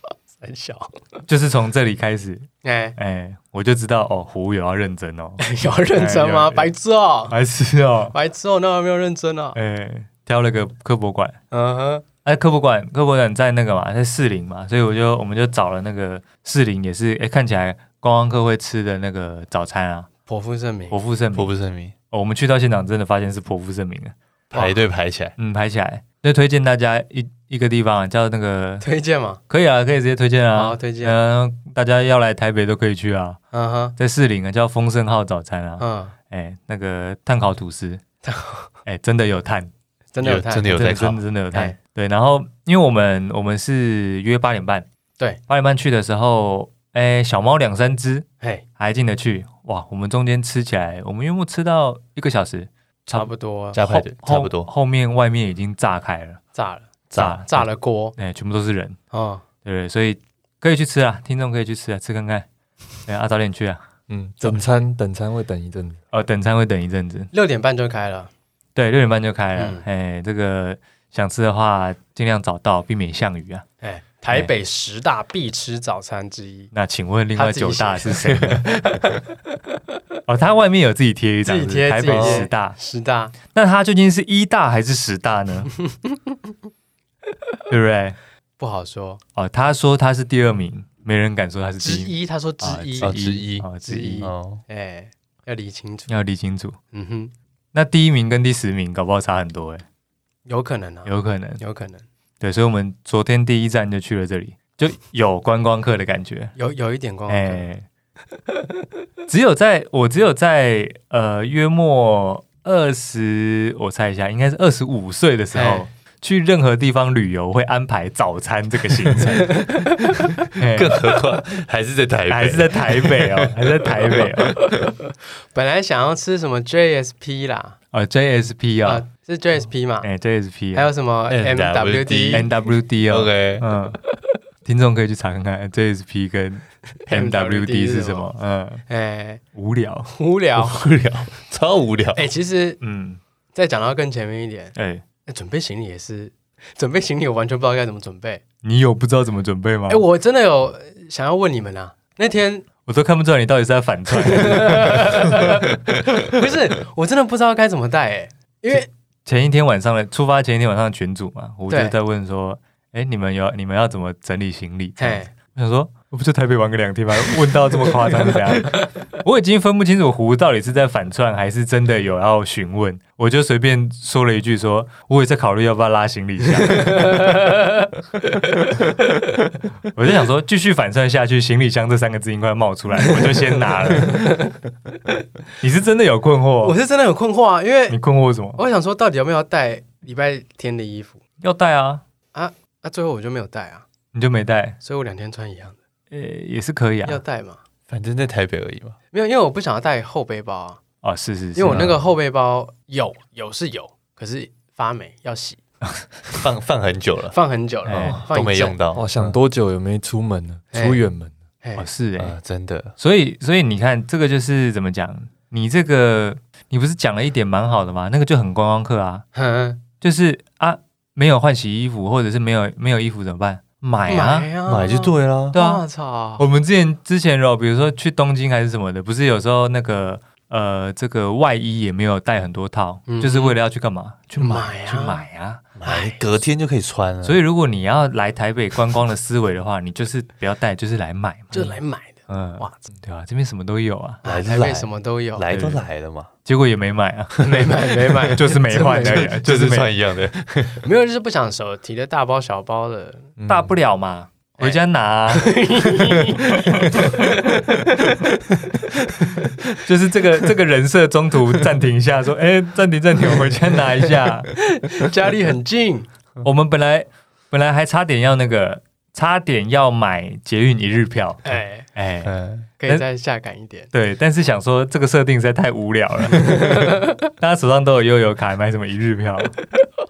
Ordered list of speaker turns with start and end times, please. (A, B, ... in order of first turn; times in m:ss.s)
0:00.4-0:01.0 A
0:01.3-0:06.7 B
0:02.6-0:03.0 A
0:05.4-0:07.3 A
0:07.3-0:08.1 B
0:08.1-0:09.6 A
0:09.5-0:11.4 B
0:11.5-0:12.0 A
0:12.2-0:20.1 B
0:20.3-0:21.0 A
0:20.9-0:21.5 B
0:21.3-0:21.9 C
0:22.1-0:24.1 B
0:24.5-0:25.3 C
0:24.5-0:24.8 A
0:25.4-0:28.8 B
0:28.8-0:29.4 A
0:29.5-0:33.4 B
0:30.5-0:31.2 A
0:33.5-0:34.0 A
0:34.0-0:38.0 B
0:35.8-0:36.1 A
0:38.2-0:38.7 A
0:38.8-0:39.7 B
0:40.1-0:40.8 A
0:40.2-0:41.2 C
0:40.6-0:44.8 B
0:45.5-0:48.3 B
0:48.8-0:56.4 B
0:53.1-0:53.8 A
0:53.7-0:54.7 C
0:56.5-0:56.9 A
0:57.1-0:57.4 C
0:57.2-0:59.0 B
0:57.4-0:58.2 A
0:59.1-0:59.4 A
0:59.6-1:02.5 B
1:03.0-1:03.8 B
1:04.1-1:06.0 D
1:06.1-1:07.3 B
1:07.3-1:08.3 A
1:08.8-1:13.6 B
1:09.6-1:09.8 A
1:13.8-1:16.7 A
1:16.7-1:19.0 B
1:17.3-1:19.0 A
1:18.3-1:18.6 C
1:20.3-1:22.8 B
1:21.4-1:23.3 A
1:22.1-1:22.5 C
1:23.5-1:25.7 B
1:27.7-1:28.2 B
1:28.6-1:29.2 A
1:29.4-1:34.3 B
1:31.8-1:33.2 A
1:33.0-1:33.7 C
1:33.8-1:36.1 A
1:34.2-1:34.6 C
1:36.1-1:36.8 B
1:36.9-1:37.3 A
1:37.7-1:39.8 B
1:40.4-1:42.0 A
1:41.0-1:41.6 B
1:42.4-1:46.5 B
1:46.6-1:47.6 A
1:47.3-1:47.8 B
1:49.3-1:59.8 B
1:55.5-1:55.8 A
1:59.4-2:00.1 A
2:00.3-2:04.3 C
2:00.5-2:01.0 B
2:02.3-2:04.6 B
2:04.6-2:07.8 A
2:07.9-2:09.0 B
2:08.8-2:10.1 A
2:10.0-2:10.9 B
2:10.7-2:12.5 A
2:11.3-2:12.5 C
2:12.3-2:14.0 B
2:13.0-2:13.6 C
2:14.6-2:18.8 B
2:17.0-2:18.3 A
2:18.9-2:19.4 A
2:19.5-2:20.1 B
2:20.1-2:20.8 A
2:20.6-2:22.2 C
2:22.1-2:22.8 A
2:22.8-2:23.2 B
2:23.5-2:24.7 A
2:24.7-2:25.0 B
2:25.2-2:28.4 A
2:28.6-2:30.0 B
2:29.9-2:32.6 A
2:32.9-2:35.6 B
2:34.1-2:38.9 A
2:39.2-2:57.2 B
2:41.7-2:41.9 A
2:45.0-2:45.3 A
2:48.6-2:48.9 A
2:56.7-2:59.0 A
2:59.9-3:04.5 B
3:03.0-3:04.6 A
3:05.6-3:06.8 B
3:06.6-3:08.0 A
3:07.9-3:08.6 B
3:08.5-3:11.2 A
3:11.4-3:12.0 B
3:12.3-3:13.8 A
3:14.1-3:14.8 B
3:14.8-3:15.8 A
3:16.1-3:17.2 B
3:17.0-3:17.6 A
3:17.9-3:19.0 C
3:19.1-3:20.8 A
3:21.0-3:22.0 B
3:21.5-3:25.6 A
3:26.3-3:27.4 C
3:27.3-3:28.8 A
3:27.8-3:28.2 B
3:28.1-3:29.3 C
3:28.9-3:31.3 D
3:30.7-3:31.0 A
3:31.6-3:31.9 A
3:31.8-3:32.4 B
3:32.2-3:32.9 C
3:33.0-3:39.2 B
3:39.3-3:39.8 A
3:40.0-3:44.5 B
3:44.1-3:46.4 A
3:44.6-3:45.6 C
3:45.5-3:45.8 B
3:46.4-3:55.6 B
3:53.1-3:53.6 A
3:54.4-3:55.2 A
3:55.8-3:57.4 C
3:55.8-3:56.2 A
3:57.2-4:01.8 B
4:01.5-4:02.8 A
4:02.3-4:04.2 B
4:04.2-4:05.5 A
4:04.2-4:06.3 C
4:05.5-4:05.8 B
4:06.4-4:09.9 B
4:07.4-4:09.3 A
4:08.9-4:10.8 C
4:10.8-4:13.3 A
4:13.4-4:13.7 D
4:13.5-4:17.5 B
4:14.6-4:18.2 A
4:19.7-4:24.5 B
4:24.7-4:26.1 A
4:26.4-4:33.0 B
4:31.4-4:31.9 A
4:32.2-4:32.6 C
4:32.8-4:33.9 A
4:33.9-4:39.5 B
4:36.5-4:37.0 A